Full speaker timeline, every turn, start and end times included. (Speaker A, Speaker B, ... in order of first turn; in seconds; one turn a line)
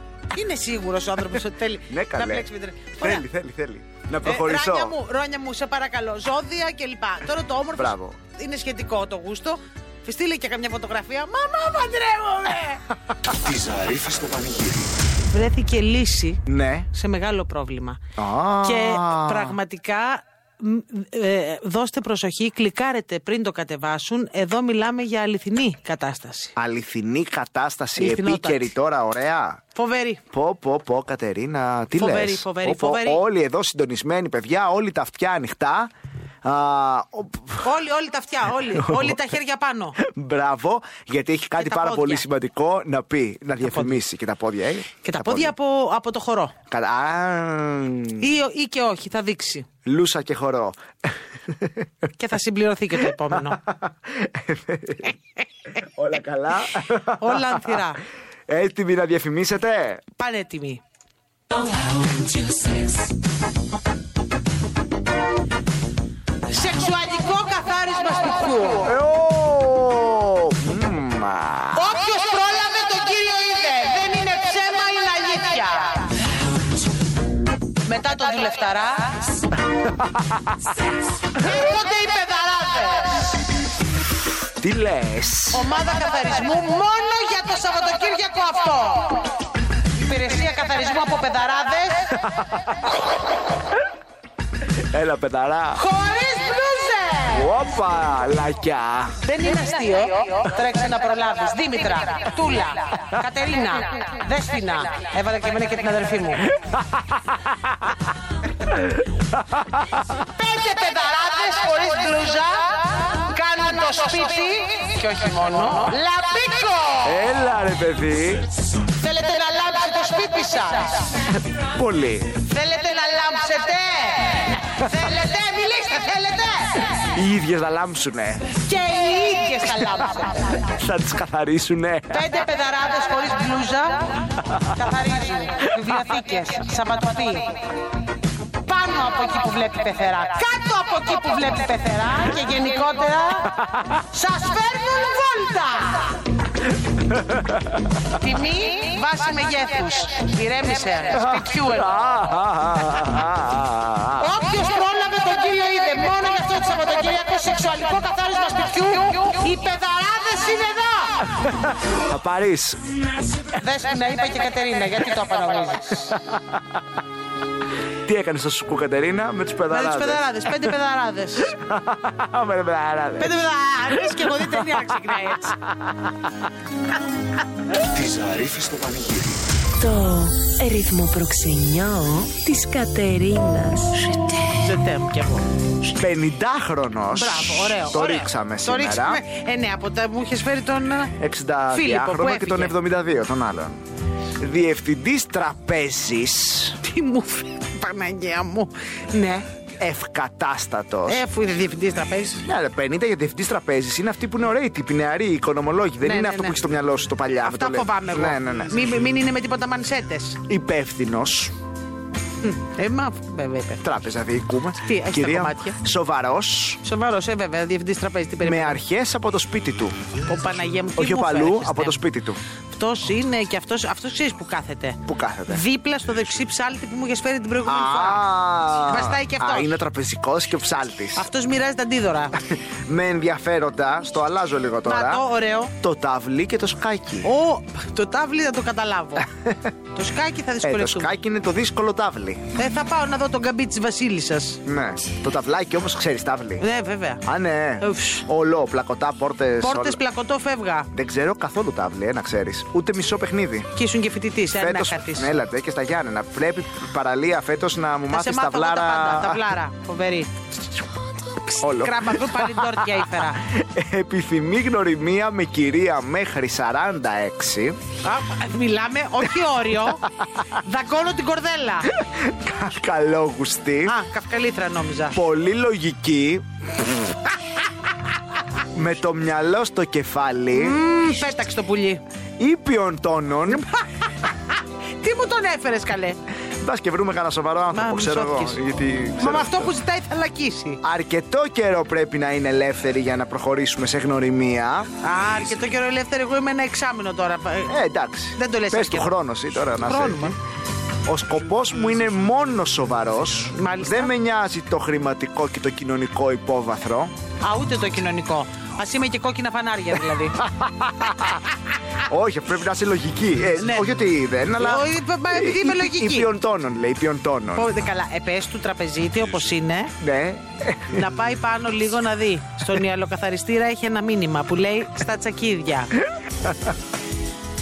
Speaker A: 0.3-3.2
Speaker B: 1.9-5.0
Speaker A: 4.2-12.8
Speaker B: 7.7-8.2
Speaker C: 13.3-14.9
Speaker A: 15.2-16.4
Speaker B: 16.5-16.9
Speaker A: 16.9-18.0
Speaker B: 18.1-19.6
Speaker A: 18.6-26.5
Speaker B: 26.6-29.6
Speaker A: 28.0-28.7
Speaker A: 29.7-30.2
Speaker B: 30.3-35.9
Speaker A: 31.9-33.2
Speaker B: 36.4-37.7
Speaker A: 37.6-40.0
Speaker B: 38.6-39.2
Speaker B: 40.0-45.5
Speaker A: 41.5-42.2
Speaker A: 43.6-44.0
Speaker A: 45.0-46.5
Speaker B: 46.7-48.2
Speaker A: 48.2-49.7
Speaker B: 49.8-50.8
Speaker B: 51.5-52.1
Speaker A: 52.2-53.6
Speaker B: 53.1-55.1
Speaker B: 55.8-57.8
Speaker A: 57.2-58.0
Speaker B: 58.5-60.0
Speaker A: 60.2-60.8
Speaker A: 66.5-68.9
Speaker B: 68.8-71.9
Speaker A: 71.7-76.1
Speaker A: 77.8-79.2
Speaker B: 79.7-80.6
Speaker A: 81.4-83.4
Speaker B: 84.6-85.7
Speaker A: 85.5-89.3
Speaker A: 90.0-92.1
Speaker B: 92.2-92.8
Speaker B: 94.7-95.8
Speaker A: 95.7-97.5
Speaker B: 97.3-99.2
Speaker A: 99.2-106.5
Speaker B: 106.5-108.0
Speaker B: 108.7-110.1
Speaker A: 110.3-117.3
Speaker B: 117.0-118.5
Speaker A: 119.0-121.2
Speaker B: 121.5-122.4
Speaker A: 122.4-127.0
Speaker B: 127.1-128.5
Speaker A: 128.6-130.6
Speaker B: 130.6-132.3
Speaker A: 132.1-137.6
Speaker A: 138.6-143.5
Speaker B: 143.6-143.9
Speaker A: 144.1-146.2
Speaker B: 146.9-148.0
Speaker A: 148.2-151.9
Speaker B: 151.1-154.3
Speaker A: 154.2-161.3
Speaker B: 161.8-162.8
Speaker A: 163.5-166.2
Speaker B: 166.1-166.8
Speaker B: 168.0-170.7
Speaker A: 169.7-171.5
Speaker B: 171.4-174.8
Speaker A: 173.2-175.6
Speaker B: 175.6-176.2
Speaker C: 177.9-179.5
Speaker D: 179.8-184.5
Speaker A: 184.6-185.5
Speaker B: 185.8-189.2
Speaker A: 187.1-191.1
Speaker B: 191.2-193.8
Speaker A: 191.7-192.8
Speaker B: 194.4-196.8
Speaker A: 196.8-199.5
Speaker B: 199.8-201.2
Speaker A: 201.1-202.4
Speaker B: 202.4-208.8
Speaker A: 206.0-206.6
Speaker A: 207.4-210.4
Speaker B: 210.4-211.5
Speaker A: 212.4-213.8
Speaker B: 213.8-216.8
Speaker A: 214.8-215.8
Speaker A: 216.8-218.8
Speaker B: 218.4-220.0
Speaker A: 220.2-222.0
Speaker B: 220.9-222.4
Speaker A: 222.7-229.7
Speaker B: 225.0-225.6
Speaker B: 227.6-231.3
Speaker A: 231.2-232.4
Speaker B: 232.4-235.2
Speaker A: 234.8-235.7
Speaker B: 235.8-237.3
Speaker A: 237.2-239.3
Speaker B: 239.2-239.7
Speaker A: 239.9-241.1
Speaker B: 240.6-242.4
Speaker A: 242.6-244.6
Speaker B: 244.7-246.7
Speaker A: 246.6-247.2
Speaker B: 247.2-250.0
Speaker A: 247.8-248.2
Speaker A: 249.6-250.9
Speaker B: 250.9-253.7
Speaker A: 253.8-255.3
Speaker B: 254.5-259.5
Speaker A: 258.1-260.3
Speaker A: 261.4-263.4
Speaker B: 261.6-267.8
Speaker A: 268.0-271.9
Speaker B: 269.8-270.3
Speaker B: 271.9-274.0
Speaker A: 273.9-275.2
Speaker B: 275.1-277.1
Speaker B: 278.7-280.9
Speaker A: 280.5-282.0
Speaker B: 282.4-283.7
Speaker A: 284.5-286.2
Speaker B: 286.6-289.7
Speaker A: 287.7-288.6
Speaker A: 289.1-290.8
Speaker B: 290.8-294.9
Speaker A: 295.0-297.8
Speaker B: 297.7-300.3
Speaker A: 298.3-299.1
Speaker A: 299.7-300.3
Speaker B: 301.1-307.1
Speaker A: 303.5-304.1
Speaker A: 307.4-310.4
Speaker B: 310.4-311.4
Speaker B: 312.0-317.7
Speaker A: 313.6-313.9
Speaker A: 314.6-316.3
Speaker A: 317.5-319.9
Speaker B: 320.0-321.1
Speaker A: 320.9-325.9
Speaker B: 326.1-326.8